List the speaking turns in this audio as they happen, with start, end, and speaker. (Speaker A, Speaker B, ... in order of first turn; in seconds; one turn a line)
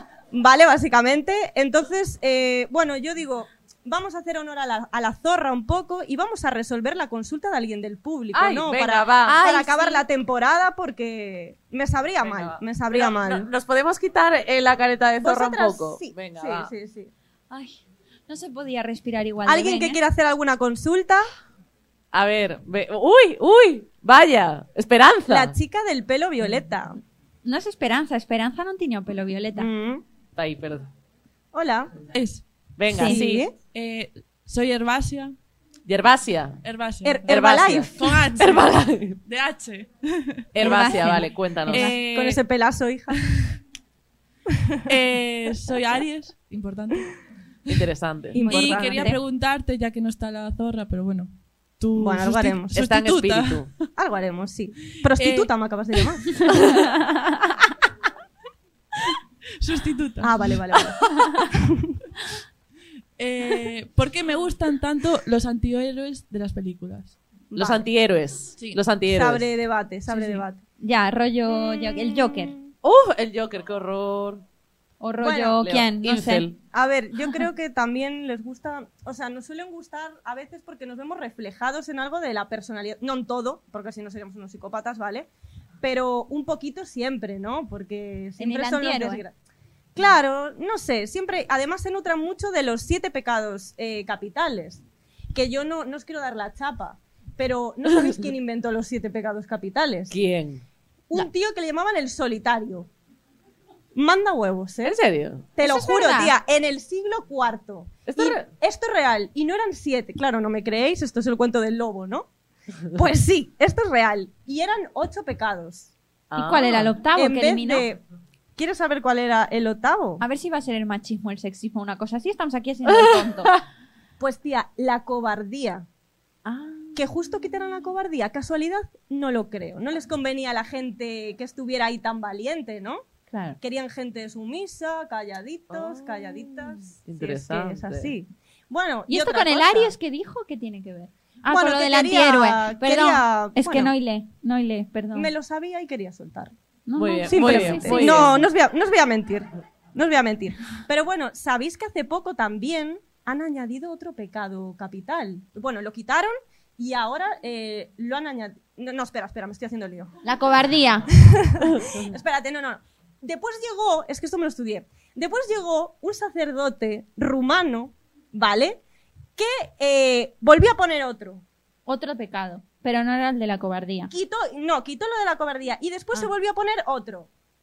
Speaker A: 0.3-13.5
Speaker B: 8.3-9.4
Speaker C: 9.2-10.0
Speaker B: 12.2-16.7
Speaker A: 15.2-17.1
Speaker C: 17.5-20.0
Speaker A: 19.4-21.3
Speaker B: 22.1-25.5
Speaker A: 25.3-27.0
Speaker C: 27.4-29.7
Speaker A: 29.6-30.0
Speaker B: 30.4-30.9
Speaker A: 31.5-31.9
Speaker D: 32.1-32.4
Speaker B: 32.8-33.5
Speaker A: 33.0-33.5
Speaker D: 33.7-35.3
Speaker B: 35.9-36.6
Speaker D: 36.6-37.4
Speaker A: 37.0-38.1
Speaker B: 37.3-39.2
Speaker D: 38.0-38.7
Speaker D: 39.2-40.5
Speaker B: 40.5-41.9
Speaker C: 40.6-41.9
Speaker D: 41.7-42.4
Speaker A: 41.9-43.2
Speaker D: 44.9-47.1
Speaker B: 47.7-48.7
Speaker A: 48.3-48.9
Speaker D: 48.4-53.7
Speaker C: 48.4-49.2
Speaker A: 52.0-52.8
Speaker B: 52.7-53.7
Speaker A: 53.9-56.3
Speaker D: 54.9-55.5
Speaker D: 59.6-60.5
Speaker A: 60.2-61.9
Speaker D: 63.2-67.2
Speaker A: 67.5-67.8
Speaker B: 67.5-69.5
Speaker A: 69.1-70.6
Speaker C: 70.1-72.5
Speaker A: 71.5-72.7
Speaker B: 72.8-74.4
Speaker C: 75.0-76.4
Speaker A: 75.2-75.6
Speaker B: 75.6-76.5
Speaker A: 76.7-85.3
Speaker A: 85.8-89.3
Speaker C: 88.4-89.2
Speaker A: 90.0-100.1
Speaker B: 100.1-100.6
Speaker A: 101.1-102.9
Speaker A: 103.9-105.0
Speaker B: 104.8-105.5
Speaker A: 105.5-112.3
Speaker C: 105.6-106.3
Speaker B: 108.1-108.5
Speaker A: 112.9-115.9
Speaker B: 116.3-116.9
Speaker C: 116.3-117.9
Speaker A: 117.1-118.0
Speaker A: 118.5-120.2
Speaker C: 120.2-123.5
Speaker B: 122.8-123.6
Speaker A: 124.2-125.8
Speaker C: 126.5-126.8
Speaker A: 127.0-133.0
Speaker C: 133.3-133.6
Speaker A: 133.6-139.9
Speaker B: 135.7-136.4
Speaker B: 137.0-138.1
Speaker C: 139.1-145.3
Speaker A: 141.5-143.9
Speaker A: 145.1-146.5
Speaker C: 146.9-148.3
Speaker B: 147.0-148.5
Speaker A: 147.3-160.1
Speaker C: 160.2-161.1
Speaker A: 161.2-168.8
Speaker A: 169.4-171.4
Speaker C: 171.9-174.1
Speaker A: 174.1-177.3